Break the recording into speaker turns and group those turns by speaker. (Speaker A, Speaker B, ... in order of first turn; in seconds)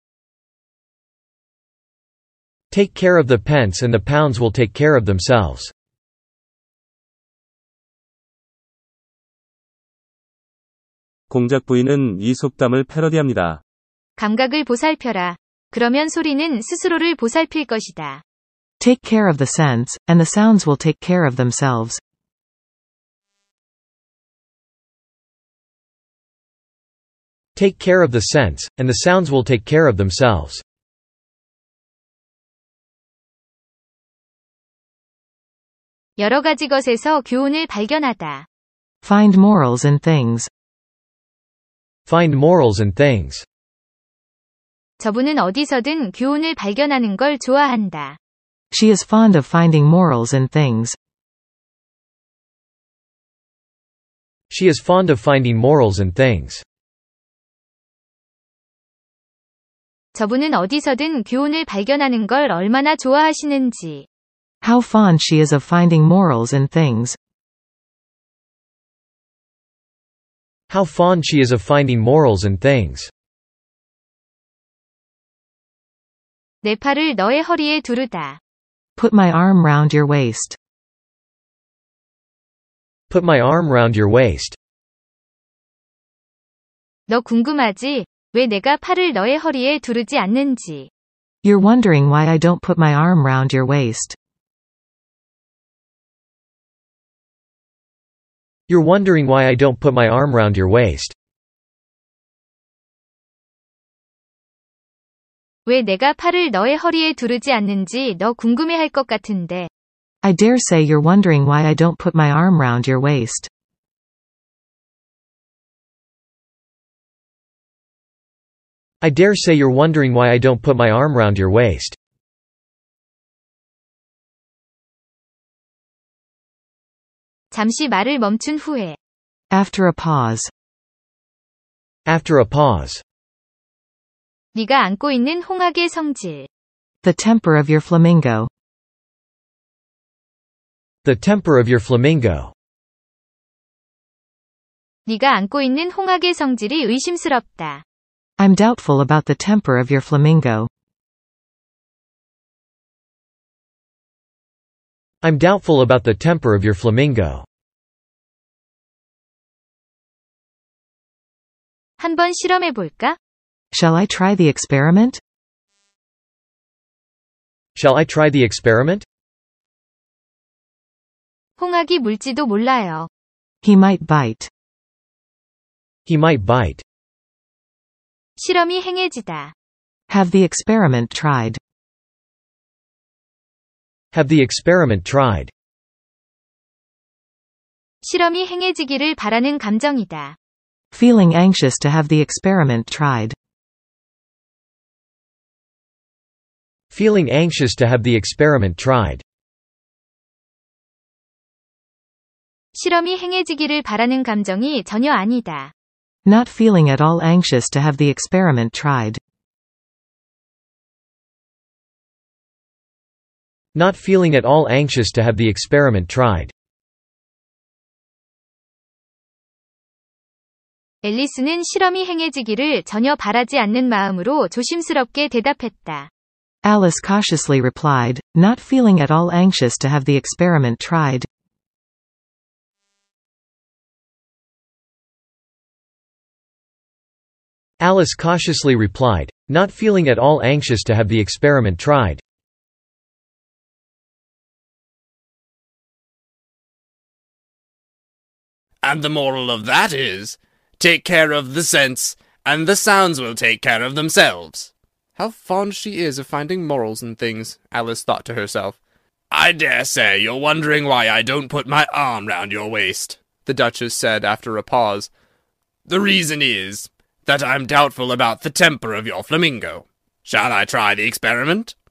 Speaker A: 2.7-5.7, 27.6-30.6, 42.1-43.4, 54.5-56.6, 70.7-73.1, 83.1-84.6, 98.7-101.1, 119.0-122.0, 132.1-133.0, 141.0-142.5, 155.2-157.4, 167.7-169.0, 176.1-176.8, 184.1-185.5, 196.9-199.2, 213.7-216.5, 237.8-242.2
Speaker B: 11.3-13.6
Speaker C: 14.2-18.2, 36.2-38.5, 45.0-48.2, 60.1-64.0, 76.6-78.4, 87.1-90.9, 105.7-109.7, 127.5-129.0, 134.5-136.5, 145.1-147.8, 162.0-163.2, 171.6-173.1, 178.4-179.5, 188.0-190.3, 202.7-205.7, 221.0-226.1
Speaker D: 18.8-22.0, 39.1-40.5, 48.8-50.9, 64.7-67.1, 79.0-80.5, 91.5-94.1, 110.3-113.4, 129.6-130.5, 137.0-138.4, 148.4-150.7, 163.8-165.1, 173.7-174.4, 180.1-181.5, 191.0-193.3, 206.3-209.1, 226.7-231.2
Speaker E: 248.8-258.8, 259.3-265.1, 265.9-271.7